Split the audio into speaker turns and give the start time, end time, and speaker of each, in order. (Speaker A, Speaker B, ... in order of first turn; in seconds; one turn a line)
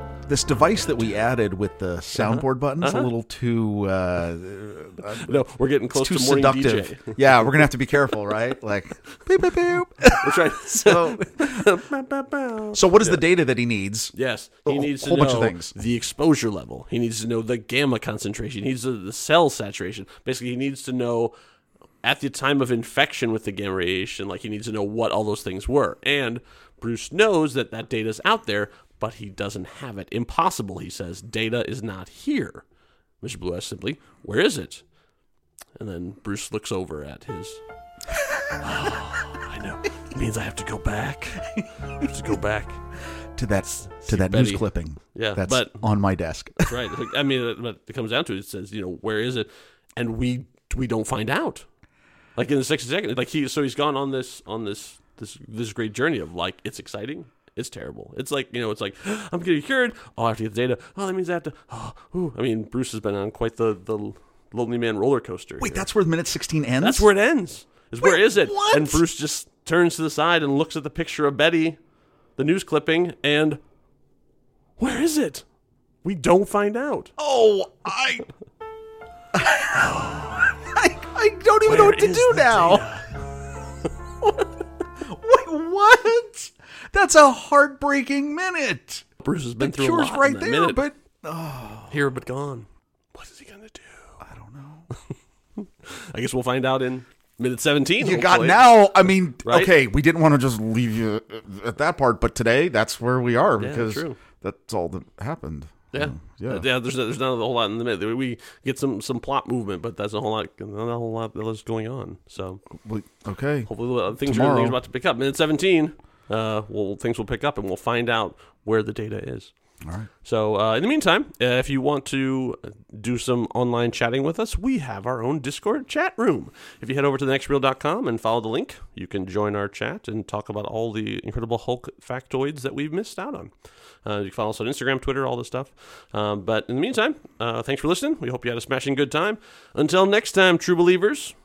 Speaker A: 0.3-11.7
Speaker B: 2.1-3.1
Speaker B: 5.1-8.2
Speaker B: 10.2-13.2
Speaker A: 12.7-14.1
Speaker B: 14.1-21.3
Speaker A: 14.7-15.7
Speaker B: 22.0-32.6
Speaker B: 33.2-34.8
Speaker B: 35.8-37.6
Speaker B: 38.5-42.8
Speaker A: 43.4-46.9
Speaker B: 44.0-45.8
Speaker B: 46.6-51.6
Speaker B: 52.4-65.9
Speaker A: 65.6-67.1
Speaker B: 66.8-71.8
Speaker A: 68.0-69.0
Speaker B: 72.3-73.6
Speaker B: 74.8-75.4
Speaker B: 76.0-77.1
Speaker A: 77.2-78.2
Speaker A: 79.3-82.9
Speaker B: 79.7-80.5
Speaker B: 81.7-83.2
Speaker A: 85.0-89.0
Speaker B: 89.2-90.8
Speaker A: 89.6-92.0
Speaker B: 91.9-94.2
Speaker A: 94.2-94.9
Speaker B: 95.6-98.8
Speaker A: 98.0-106.6
Speaker B: 99.4-99.7
Speaker B: 103.6-104.2
Speaker B: 105.9-112.6
Speaker A: 112.8-114.8
Speaker B: 113.7-119.5
Speaker A: 119.8-120.1
Speaker B: 120.2-133.5
Speaker B: 134.0-141.3